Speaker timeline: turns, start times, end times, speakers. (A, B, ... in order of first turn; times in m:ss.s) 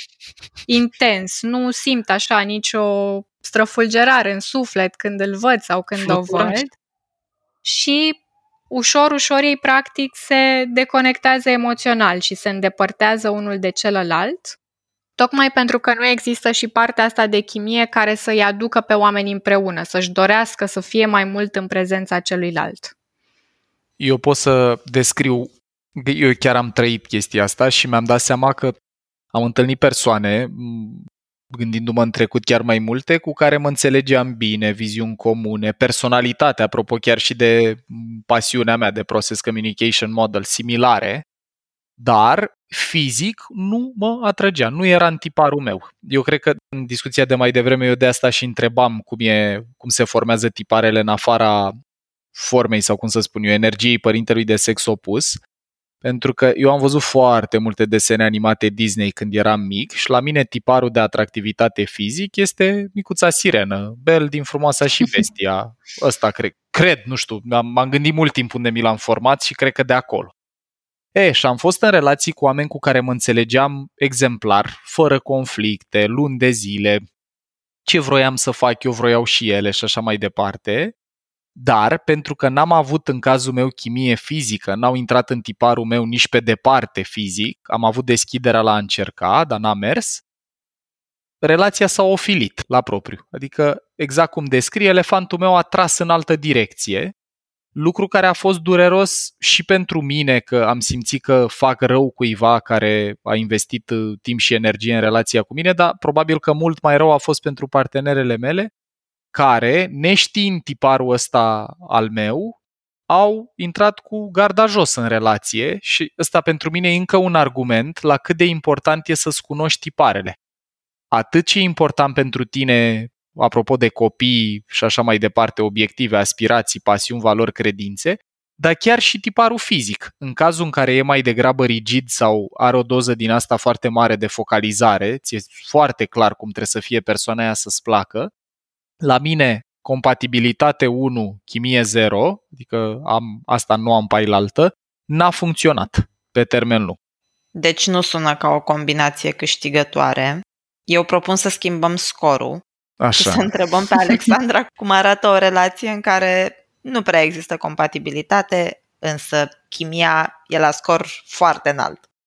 0:00.7-0:06.7 A
0:06.0-0:06.6 B
0:07.6-0:08.2 A
0:08.7-0:14.6 A
0:15.2-0:22.9 A
0:24.0-0:28.7 B
0:29.3-0:41.2 B
0:42.0-0:51.7 B
0:52.3-0:55.4 B
0:56.0-1:10.3 B
1:11.1-1:17.0 B
1:17.8-1:20.9 B
1:21.6-1:30.2 B
1:31.4-1:37.1 B
1:37.7-1:48.7 B
1:49.3-1:52.6 B
1:53.1-2:00.4 B
2:01.1-2:18.3 B
2:19.0-2:27.0 B
2:27.6-2:32.6 C
2:33.0-2:33.5 B
2:33.2-2:42.0 C